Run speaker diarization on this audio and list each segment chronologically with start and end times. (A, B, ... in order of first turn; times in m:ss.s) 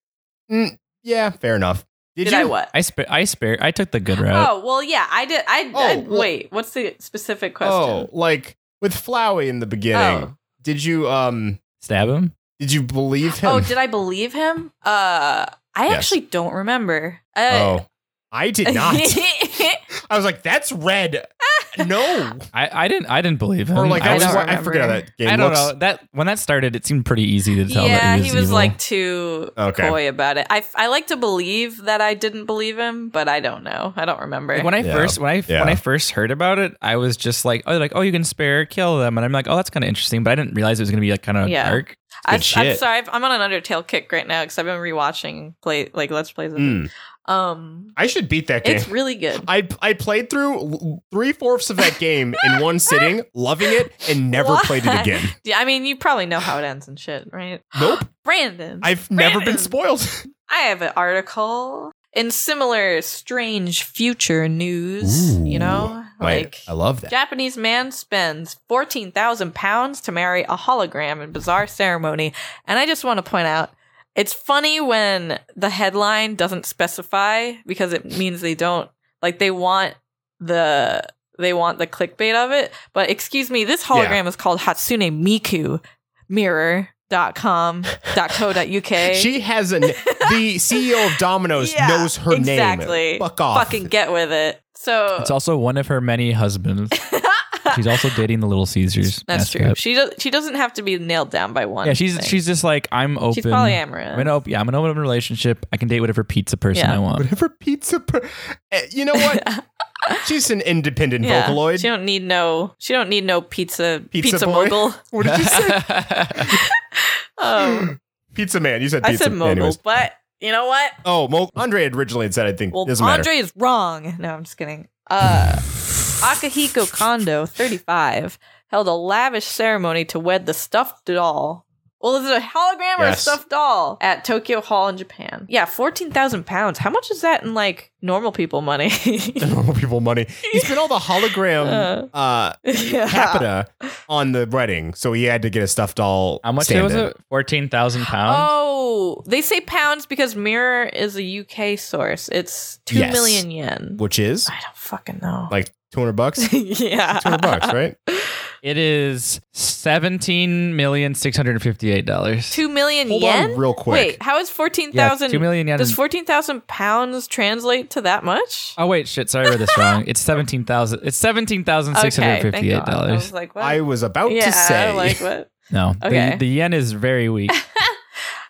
0:00.5-0:02.5 A
0:02.2-0:02.7 B
0:02.7-0:04.5 C
0:04.2-0:08.0 B
0:05.7-0:06.3 A
0:07.6-0:11.6 A
0:09.9-0:10.3 B
0:11.8-0:12.3 C
0:12.6-0:13.7 A
0:13.4-0:17.8 B
0:17.5-0:19.3 A
0:18.6-0:19.8 B
0:20.1-0:22.4 A
0:21.6-0:22.2 B
0:22.5-0:24.6 C
0:23.7-0:25.7 A
0:24.0-0:25.0 B
0:25.2-0:28.7 C
0:27.7-0:34.7 B
0:29.6-0:30.0 A
0:34.5-0:42.0 C
0:34.8-0:35.8 A
0:41.4-0:47.9 B
0:42.3-0:42.8 A
0:46.6-0:46.9 A
0:48.0-0:55.3 A
0:48.6-0:49.5 B
0:52.4-0:53.1 B
0:54.3-0:59.7 B
0:57.7-0:58.1 A
0:58.8-1:00.2 A
1:00.5-1:29.3 B
1:05.0-1:07.1 A
1:23.9-1:24.2 A
1:29.1-1:33.9 A
1:29.9-1:31.0 B
1:31.6-1:35.3 B
1:35.2-1:37.0 C
1:37.0-1:37.8 B
1:37.7-1:39.8 C
1:39.3-1:42.3 B
1:41.8-1:47.3 C
1:43.3-1:44.3 B
1:47.2-1:49.4 A
1:49.2-1:50.2 B
1:50.2-1:51.9 A
1:51.2-1:55.0 B
1:54.1-1:56.6 A
1:55.2-1:56.5 C
1:56.5-1:57.9 B
1:57.6-1:59.8 A
1:59.0-2:01.0 B
2:01.0-2:03.3 A
2:02.7-2:19.5 B
2:13.0-2:13.4 A
2:19.4-2:27.1 A
2:20.5-2:20.8 B
2:21.6-2:22.1 B
2:22.7-2:23.4 B
2:26.4-2:28.5 C
2:28.2-2:35.5 B
2:32.9-2:33.4 A
2:34.0-2:34.5 A
2:35.5-2:36.5 A
2:36.4-2:38.3 B
2:37.2-2:37.9 A
2:38.6-2:42.6 C
2:42.5-2:48.8 B
2:43.0-2:44.2 A
2:44.9-2:46.0 C
2:48.8-2:53.3 C
2:49.5-2:50.0 B
2:51.9-2:55.5 B
2:53.6-2:55.2 A
2:55.7-2:57.6 C
2:56.0-2:56.4 B
2:57.7-2:58.0 B